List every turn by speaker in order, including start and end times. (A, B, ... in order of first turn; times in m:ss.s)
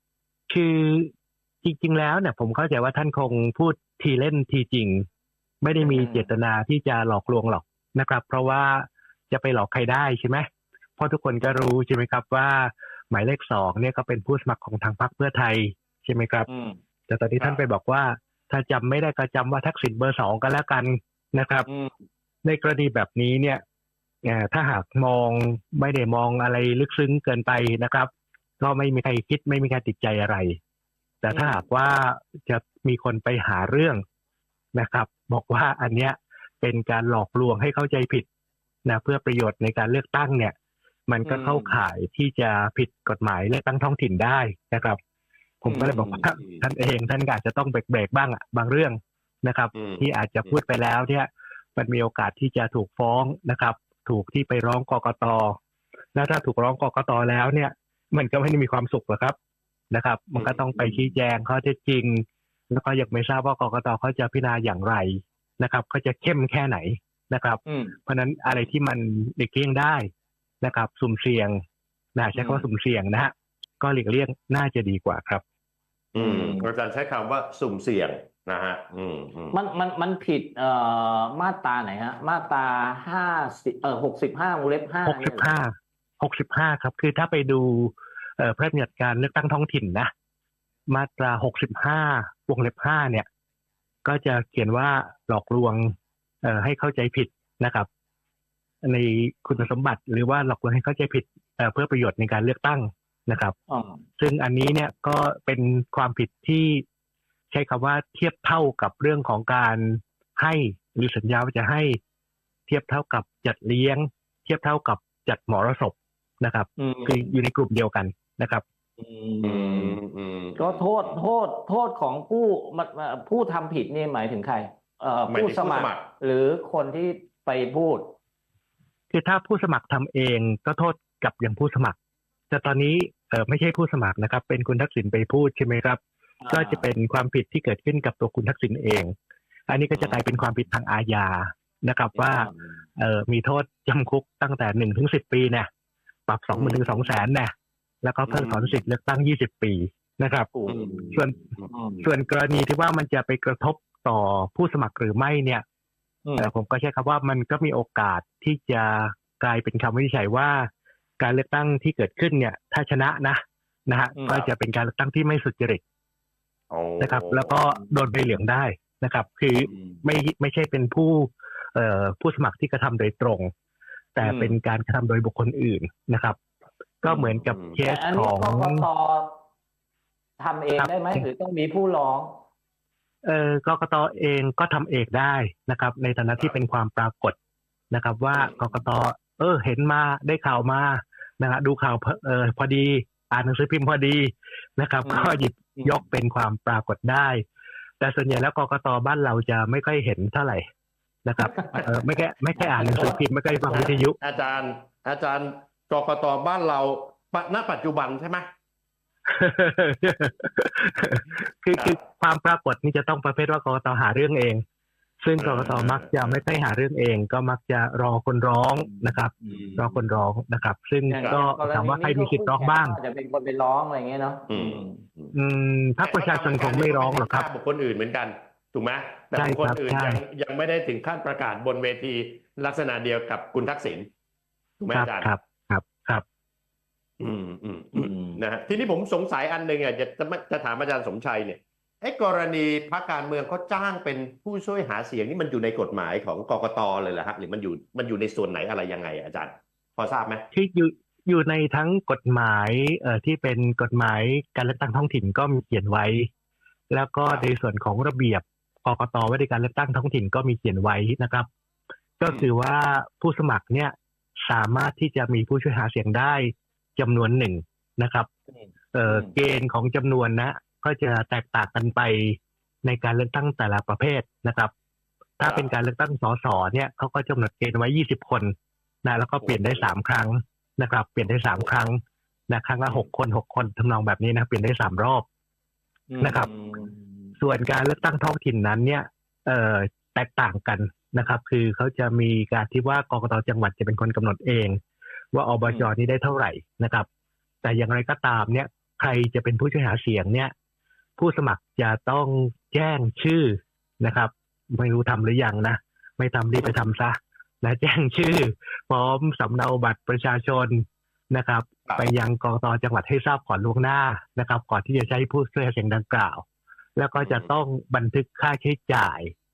0:00.5-0:01.1 A
0:01.6-0:05.1 A
0:05.6-0:10.4 A
0:05.8-0:06.3 B
0:11.0-0:16.5 A
0:16.5-0:16.8 B
0:17.1-0:21.7 A
0:21.7-0:21.9 B
0:22.4-0:23.6 A
0:24.2-0:28.1 A
0:28.6-0:30.6 A
0:31.2-0:34.0 A
0:31.3-0:31.6 B
0:34.8-0:38.2 A
0:38.8-0:40.5 A
0:41.1-0:45.0 A
0:41.3-0:41.8 B
0:45.6-0:55.6 A
0:45.7-0:46.2 B
0:49.7-0:50.5 C
0:56.2-0:59.4 A
0:59.9-1:10.1 A
1:00.4-1:00.6 C
1:07.7-1:07.9 B
1:10.6-1:11.6 A
1:12.2-1:15.4 A
1:12.3-1:12.7 B
1:16.1-1:19.6 C
1:16.2-1:16.7 B
1:19.5-1:25.5 B
1:25.0-1:30.1 A
1:30.9-1:33.3 A
1:34.0-1:37.9 A
1:38.8-1:43.6 A
1:43.7-1:44.0 B
1:44.2-1:46.8 A
1:47.5-1:52.0 A
1:52.7-1:58.6 A
1:56.8-1:57.3 B
1:59.0-2:00.0 B
1:59.4-2:01.2 C
2:00.6-2:08.2 B
2:05.3-2:06.1 C
2:09.1-2:12.0 A
2:12.5-2:19.1 A
2:16.4-2:16.9 B
2:19.7-2:25.7 A
2:20.0-2:20.2 C
2:26.3-2:27.5 A
2:26.5-2:27.1 C
2:28.0-2:30.5 A
2:28.3-2:28.8 C
2:30.6-2:31.2 B
2:30.7-2:32.0 C
2:31.1-2:31.4 A
2:31.7-2:32.0 B
2:32.0-2:35.6 A
2:36.2-2:36.5 B
2:36.4-2:40.7 A
2:41.2-2:45.8 A
2:44.2-2:44.5 B
2:46.7-2:47.6 C
2:47.0-2:53.5 A
2:54.2-2:56.4 A
2:54.2-2:54.6 B
2:57.0-2:58.9 A
2:57.1-2:57.8 C
2:57.8-2:59.4 B
3:00.4-3:02.4 B
3:00.8-3:01.3 A
3:03.2-3:07.4 A
3:07.9-3:17.4 A
3:15.0-3:16.0 B
3:18.0-3:20.6 A
3:21.2-3:24.2 A
3:21.4-3:22.0 B
3:22.6-3:23.2 B
3:23.7-3:28.4 C
3:29.3-3:34.6 A
3:35.2-3:43.0 A
3:35.4-3:36.4 C
3:38.8-3:39.8 B
3:41.1-3:45.0 B
3:44.5-3:45.3 C
3:45.3-3:47.5 A
3:46.0-3:54.1 C
3:49.4-3:50.2 A
3:54.8-3:55.3 C
3:54.9-3:56.2 A
3:57.2-4:10.4 C
3:57.9-3:58.4 B
4:10.5-4:16.3 A
4:16.9-4:21.5 A
4:22.2-4:23.9 A
4:24.4-4:28.3 A
4:28.5-4:29.3 B
4:28.9-4:34.7 A
4:35.4-4:38.5 A
4:35.4-4:35.7 C
4:39.0-4:42.0 A
4:39.4-4:39.9 C
4:42.5-4:45.2 A
4:46.1-4:47.0 B
4:46.2-4:46.5 A
4:47.4-4:54.8 A
4:55.3-4:57.1 A
4:55.6-4:55.9 B
4:57.6-5:00.5 A
5:01.2-5:16.4 A
5:17.0-5:19.3 A
5:17.2-5:17.5 C